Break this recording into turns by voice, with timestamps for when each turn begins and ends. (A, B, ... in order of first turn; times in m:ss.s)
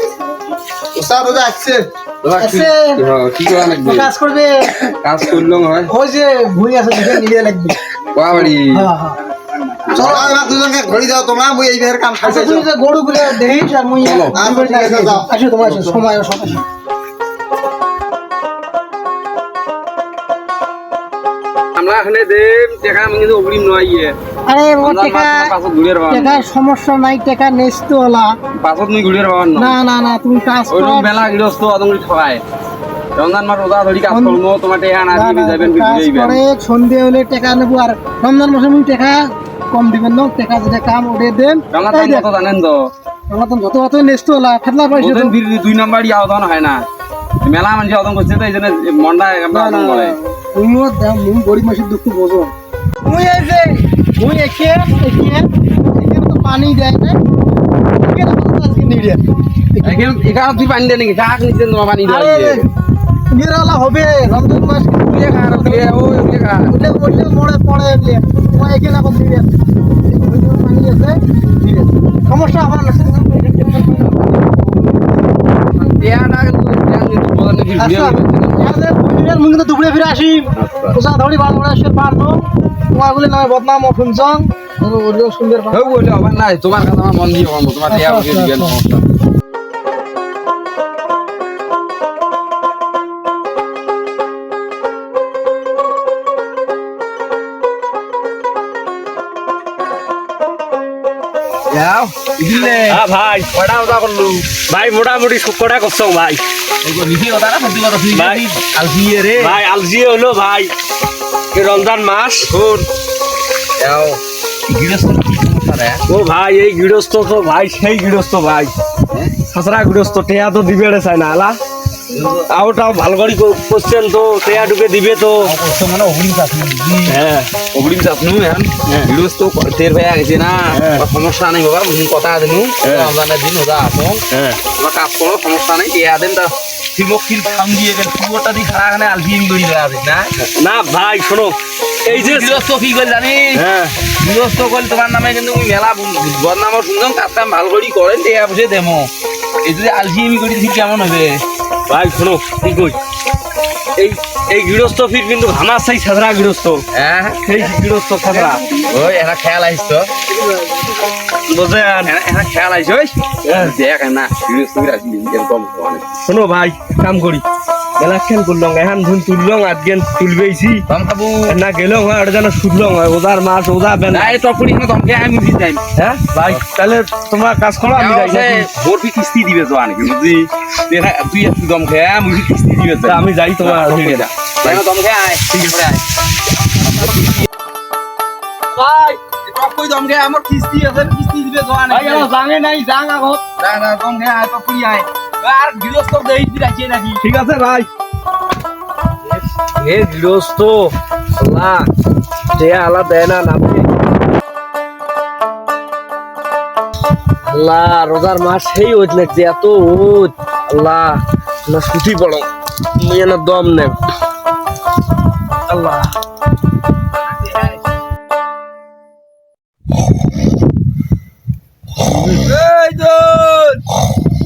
0:00.9-0:01.9 A
0:02.2-0:04.1 B
0:02.4-0:03.0 C
0:03.8-0:04.7 C
0:05.0-0:05.9 B
0:05.9-0:07.8 C
0:08.1-0:08.9 B
0:08.7-0:09.2 C
0:09.9-0:12.7 A
0:09.9-0:10.3 B
0:09.9-0:10.4 C
0:12.2-0:16.6 C
0:14.0-0:14.3 B
0:14.3-0:15.3 A
0:21.7-0:24.2 B
0:24.5-0:25.5 C
0:24.8-0:26.5 B
0:26.1-0:28.3 C
0:28.5-0:29.8 B
0:29.6-0:31.2 C
0:30.7-0:32.4 B
0:33.2-0:36.4 B
0:34.1-0:34.4 C
0:35.1-0:42.3 C
0:41.7-0:42.9 B
0:43.3-0:45.3 C
0:44.9-0:46.8 B
0:47.4-0:50.2 B
0:49.5-0:57.2 C
0:57.9-0:59.2 C
0:59.8-1:00.0 C
0:59.8-1:02.6 B
1:02.0-1:02.6 C
1:03.3-1:05.9 C
1:05.0-1:06.7 B
1:06.7-1:09.4 C
1:10.0-1:15.0 C
1:15.8-1:18.7 B
1:17.8-1:26.0 C
1:20.5-1:21.0 B
1:25.7-1:29.0 B
1:27.9-1:28.8 C
1:41.7-1:43.0 B
1:42.9-1:43.5 D
1:43.5-1:44.6 B
1:44.6-1:46.4 D
1:46.8-1:49.6 B
1:48.1-1:48.4 D
1:49.4-1:50.7 D
1:51.5-1:52.5 D
1:52.4-1:52.9 B
1:53.8-1:56.0 B
1:56.1-1:58.7 D
1:59.5-2:01.6 D
2:02.1-2:02.5 B
2:02.5-2:05.5 D
2:04.4-2:04.7 B
2:05.4-2:07.2 B
2:07.1-2:07.5 D
2:07.7-2:14.2 B
2:10.7-2:11.0 D
2:12.8-2:13.1 D
2:14.3-2:14.6 D
2:14.7-2:20.3 B
2:20.4-2:22.6 D
2:22.1-2:23.6 B
2:23.5-2:24.0 D
2:24.1-2:29.1 B
2:29.6-2:31.4 B
2:31.9-2:33.0 D
2:34.0-2:36.8 D
2:36.9-2:37.4 B
2:37.4-2:38.6 D
2:38.9-2:40.1 B
2:40.4-2:40.8 C
2:41.5-2:42.1 D
2:42.0-2:46.1 B
2:43.4-2:43.8 D
2:46.3-2:47.4 D
2:48.0-2:50.8 D
2:50.9-2:51.6 B
2:51.5-2:54.4 D
2:54.1-2:55.9 B
2:56.0-2:58.7 D
2:57.9-3:06.0 B
3:03.0-3:04.8 D
3:08.8-3:09.2 D
3:09.3-3:12.3 B
3:11.9-3:13.4 D
3:13.6-3:17.2 B
3:17.2-3:17.9 D
3:19.3-3:21.9 D
3:22.5-3:23.9 D
3:27.4-3:34.0 D
3:35.7-3:36.1 D
3:37.3-3:37.8 B
3:42.3-3:43.8 B